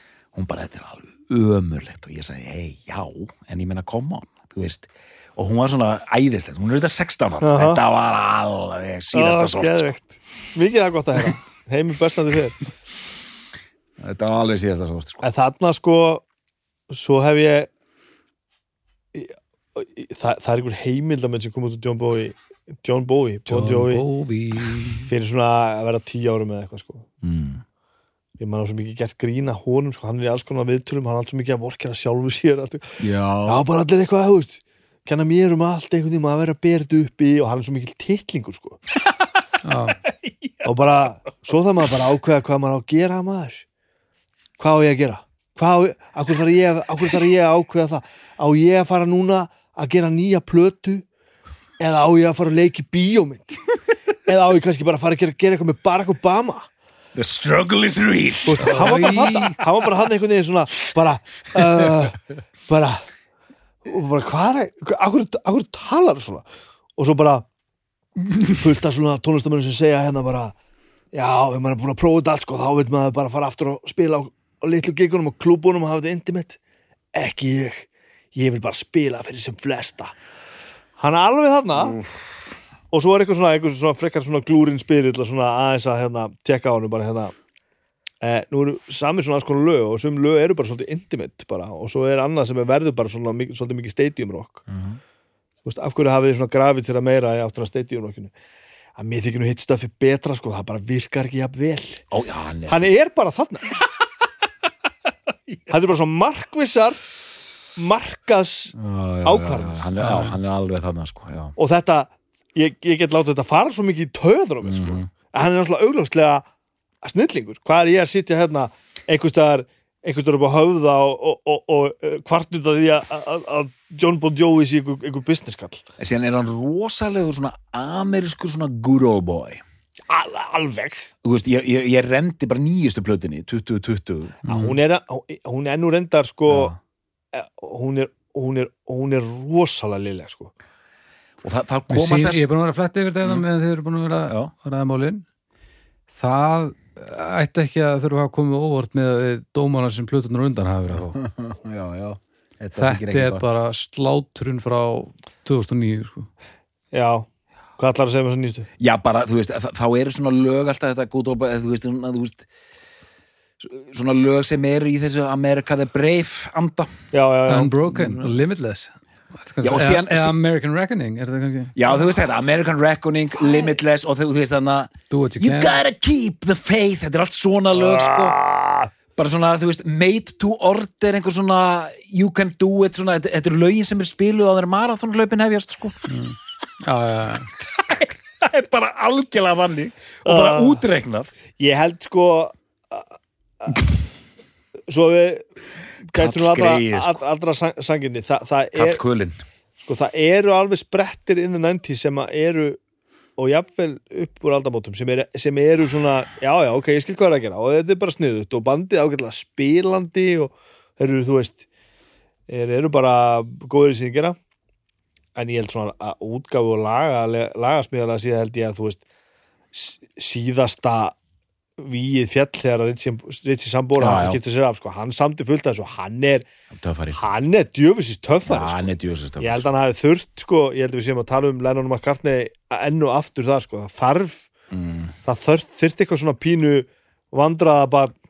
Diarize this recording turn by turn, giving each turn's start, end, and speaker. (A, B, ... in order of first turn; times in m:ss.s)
0:00.3-0:09.8 A
0:07.4-0:07.8 B
0:09.1-0:12.6 B
0:14.0-0:15.2 A
0:15.2-0:16.2 B
0:16.9-0:17.7 B
0:19.1-0:24.0 B
0:23.5-0:25.1 C
0:25.0-0:27.0 B
0:27.2-0:27.6 A
0:28.4-0:38.8 B
0:33.0-0:33.6 A
0:39.6-0:40.0 C
0:40.1-0:41.0 A
0:40.6-0:43.6 B
0:44.6-0:51.0 B
0:51.8-0:53.6 B
0:54.2-0:56.7 B
0:57.1-0:59.5 A
0:58.4-1:03.0 B
0:58.6-0:59.6 C
1:01.5-1:02.0 A
1:03.8-1:06.4 B
1:07.0-1:07.4 B
1:08.5-1:10.5 B
1:11.1-1:16.6 B
1:17.1-1:20.1 B
1:21.0-1:22.0 B
1:22.9-1:27.3 B
1:28.2-1:34.6 B
1:34.7-1:35.0 A
1:35.6-1:38.3 B
1:39.0-1:42.0 B
1:42.1-1:42.9 A
1:42.7-1:43.8 B
1:45.7-1:47.0 B
1:47.8-1:49.9 B
1:48.8-1:51.6 A
1:50.0-1:50.3 C
1:51.6-1:56.4 B
1:54.6-1:55.1 A
1:57.0-2:05.8 B
2:06.0-2:09.6 A
2:10.1-2:11.1 B
2:11.2-2:14.5 A
2:14.4-2:14.8 C
2:14.5-2:16.7 B
2:16.5-2:16.8 A
2:17.3-2:20.5 B
2:21.4-2:22.4 A
2:21.9-2:25.2 C
2:26.1-2:31.2 C
2:31.1-2:33.5 A
2:32.8-2:36.3 C
2:36.9-2:37.3 B
2:37.8-2:38.7 B
2:38.8-2:42.4 A
2:43.6-2:46.9 A
2:47.1-2:47.7 B
2:47.5-2:51.8 C
2:47.9-2:48.3 A
2:49.6-2:50.3 A
2:51.7-2:58.4 A
2:55.1-2:55.8 C
2:57.7-2:58.9 B
2:59.2-3:06.1 A
3:06.1-3:07.5 C
3:07.6-3:11.3 A
3:10.2-3:10.8 B
3:11.6-3:13.1 B
3:13.6-3:13.9 B
3:14.9-3:15.4 B
3:16.1-3:17.2 A
3:16.1-3:19.0 B
3:18.7-3:19.4 A
3:19.8-3:22.8 B
3:23.4-3:31.6 B
3:32.5-3:34.4 B
3:35.3-3:39.0 B
3:39.7-3:41.1 B
3:41.8-3:46.5 B
3:44.0-3:44.4 A
3:46.7-3:47.2 A
3:47.1-3:54.5 B
3:48.4-3:49.7 A
3:54.7-3:55.2 A
3:55.2-3:58.2 B